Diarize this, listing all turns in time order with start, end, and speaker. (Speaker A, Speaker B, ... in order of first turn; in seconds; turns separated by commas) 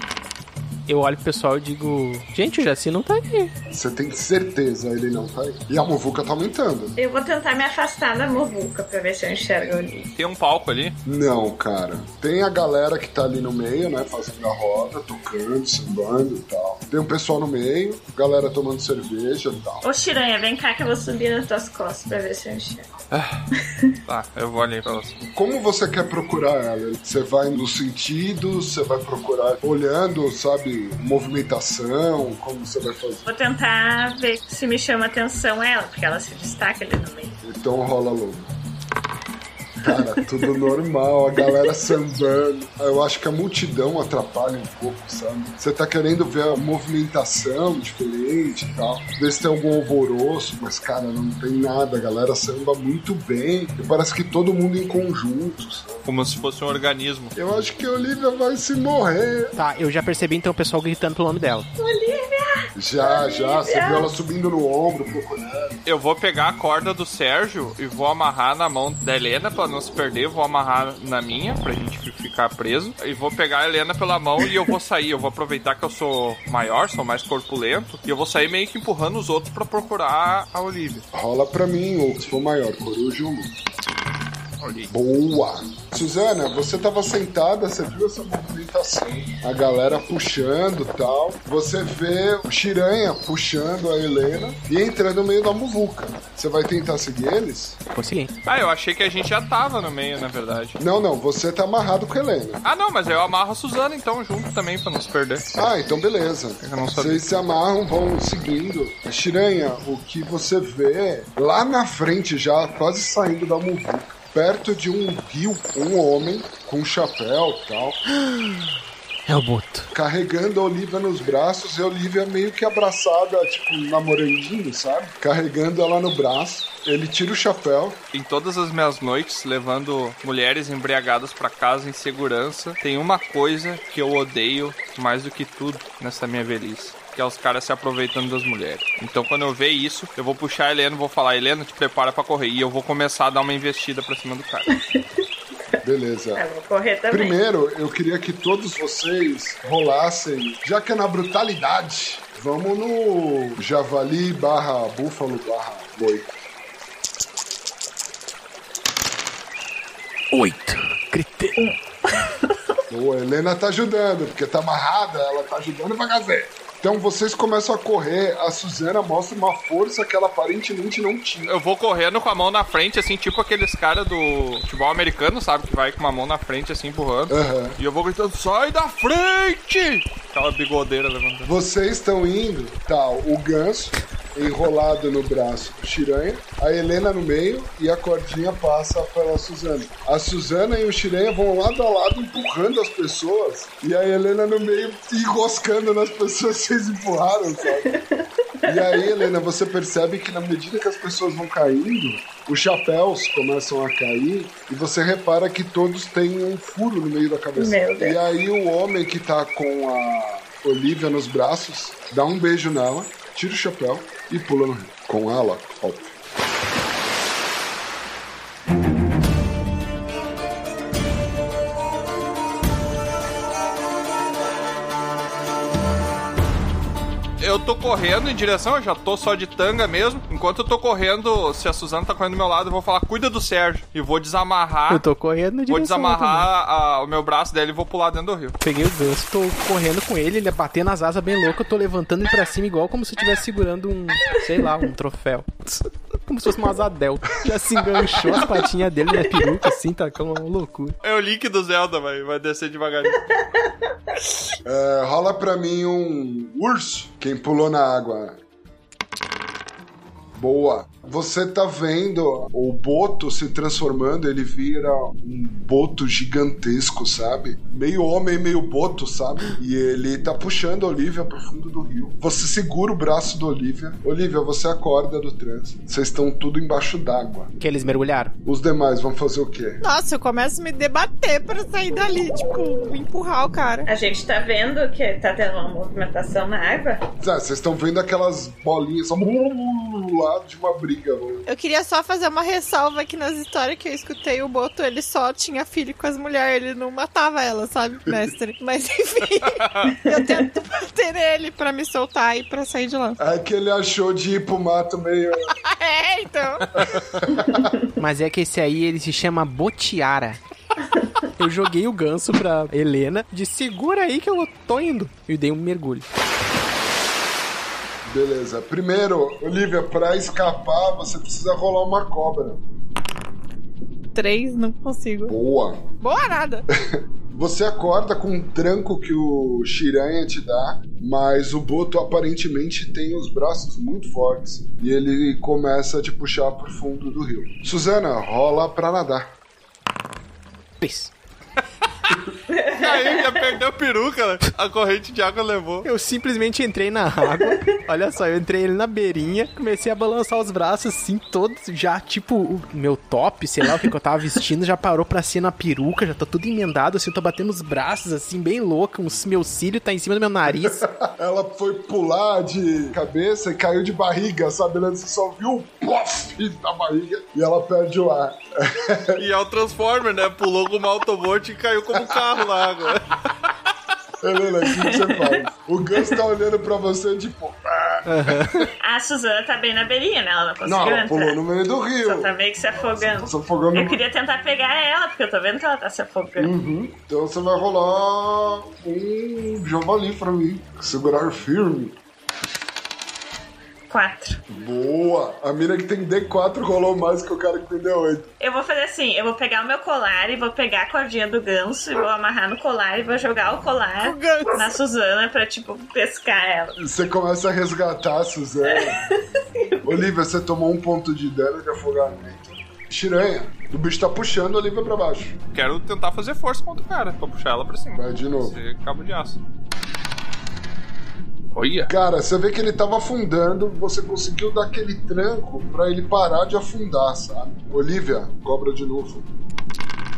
Speaker A: 0.9-3.5, Speaker B: 3.7-7.0, Speaker C: 7.0-10.1, Speaker D: 10.2-10.9, Speaker B: 11.1-19.8, Speaker C: 19.8-22.9, Speaker D: 23.1-23.4, Speaker D: 24.1-25.2, Speaker B: 25.3-33.3, Speaker C: 33.3-37.4, Speaker B: 37.4-38.5, Speaker B: 39.8-56.1, Speaker D: 56.1-57.3, Speaker B: 57.4-59.6, Speaker A: 59.6-61.7, Speaker C: 61.8-64.1, Speaker B: 62.8-65.8, Speaker D: 65.8-81.0, Speaker B: 81.1-83.5, Speaker D: 84.6-84.9, Speaker B: 84.9-97.8, Speaker A: 97.9-98.3, Speaker D: 98.5-100.8, Speaker B: 100.8-102.6, Speaker D: 102.7-105.5, Speaker B: 105.6-118.0, Speaker D: 106.6-107.2, Speaker A: 118.1-119.9, Speaker B: 119.9-128.0, Speaker D: 128.1-144.7, Speaker C: 144.7-145.0, Speaker B: 145.8-146.4, Speaker C: 146.3-147.4, Speaker B: 147.1-156.5, Speaker A: 160.3-161.6, Speaker C: 161.6-162.6, Speaker B: 162.9-171.6, Speaker D: 171.5-181.5, Speaker B: 177.3-177.8, Speaker B: 181.4-198.0, Speaker C: 197.9-199.1, Speaker B: 198.7-216.2, Speaker C: 207.6-208.2, Speaker D: 227.4-235.1, Speaker A: 234.9-236.5, Speaker D: 235.7-238.6, Speaker A: 238.6-251.0, Speaker D: 251.0-253.2, Speaker B: 254.7-258.4, Speaker B: 260.4-277.5, Speaker A: 277.6-278.4, Speaker B: 278.4-279.8, Speaker E: 279.8-283.9, Speaker C: 283.9-287.1, Speaker B: 287.2-291.4, Speaker E: 291.5-303.2, Speaker D: 299.4-300.0, Speaker B: 303.2-305.5, Speaker E: 305.5-306.9, Speaker B: 306.7-307.8, Speaker A: 308.0-310.4, Speaker A: 311.4-316.1, Speaker B: 318.1-322.6, Speaker E: 324.1-325.3, Speaker B: 325.3-325.9, Speaker E: 326.0-326.6, Speaker B: 326.7-339.3, Speaker A: 340.8-341.1, Speaker D: 342.1-345.9, Speaker C: 342.5-343.3, Speaker A: 345.9-360.9, Speaker B: 360.5-369.2, Speaker D: 369.2-373.5, Speaker B: 374.2-378.7, Speaker C: 374.7-375.4, Speaker A: 378.1-378.7, Speaker C: 378.8-381.4, Speaker B: 380.6-384.0, Speaker C: 382.0-386.5, Speaker B: 386.4-392.0, Speaker C: 393.9-394.4, Speaker B: 394.5-398.3, Speaker C: 398.4-406.8, Speaker E: 404.0-404.8, Speaker B: 406.8-409.1, Speaker C: 408.7-410.0, Speaker B: 409.8-415.4, Speaker D: 415.5-419.4, Speaker B: 417.9-418.6, Speaker D: 421.5-421.9, Speaker B: 421.9-429.3